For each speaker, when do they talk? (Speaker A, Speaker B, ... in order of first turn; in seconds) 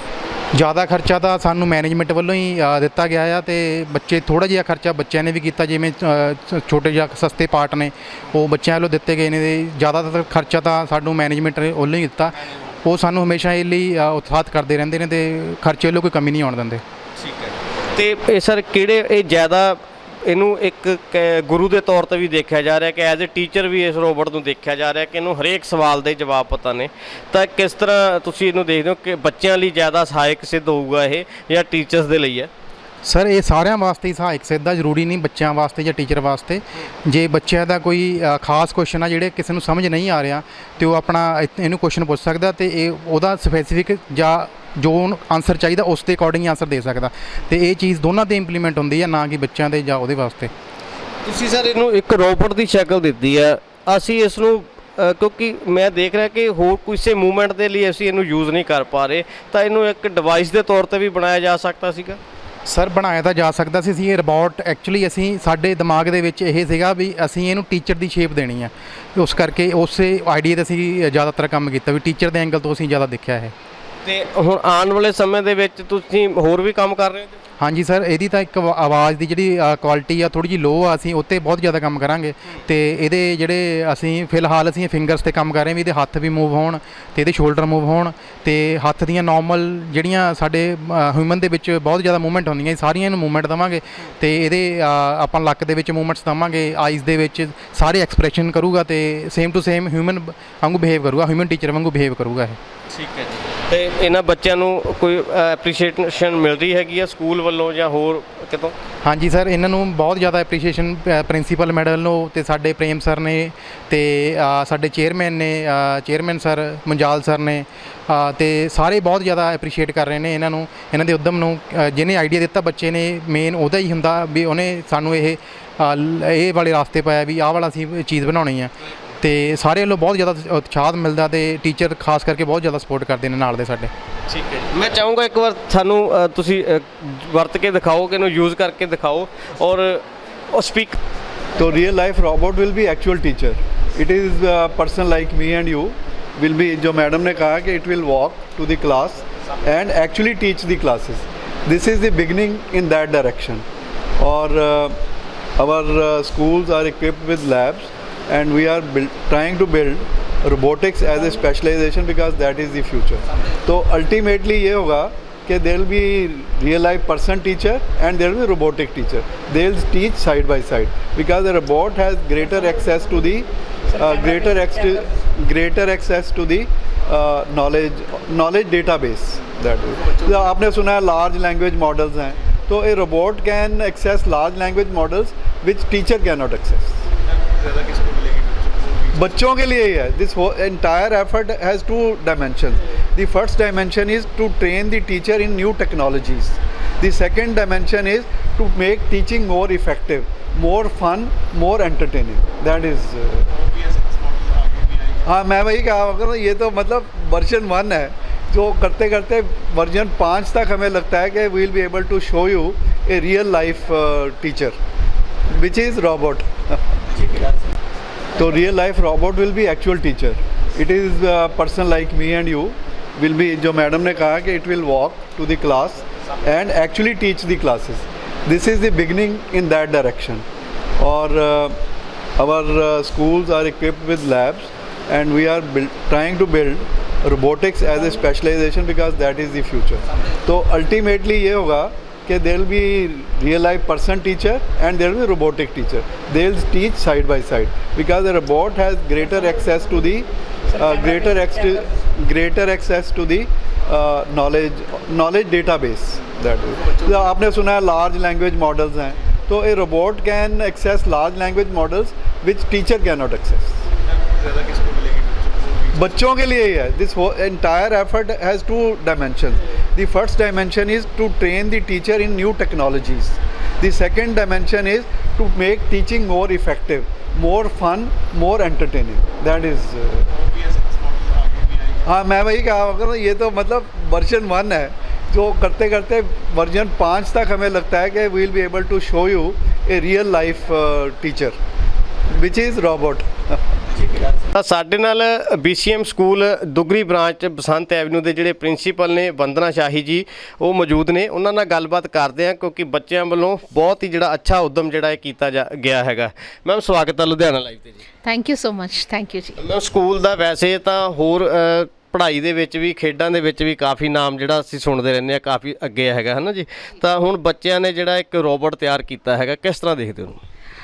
Speaker A: 0.6-16.8, 33.0-50.5, 62.7-73.5, 77.6-102.6, 109.0-133.9
Speaker B: 17.2-32.5, 51.2-62.2, 74.0-77.3, 102.9-108.7, 134.3-141.0, 294.5-308.0, 309.6-320.4
Speaker C: 141.6-153.7, 154.2-155.0, 155.6-187.0, 189.1-203.5, 205.3-214.8, 215.5-216.8, 218.4-230.4, 231.0-231.8, 232.4-263.8, 265.9-280.3, 282.1-291.6, 292.4-293.6
Speaker D: 187.5-189.3, 203.5-205.2, 264.3-266.1, 280.3-282.1, 308.2-309.6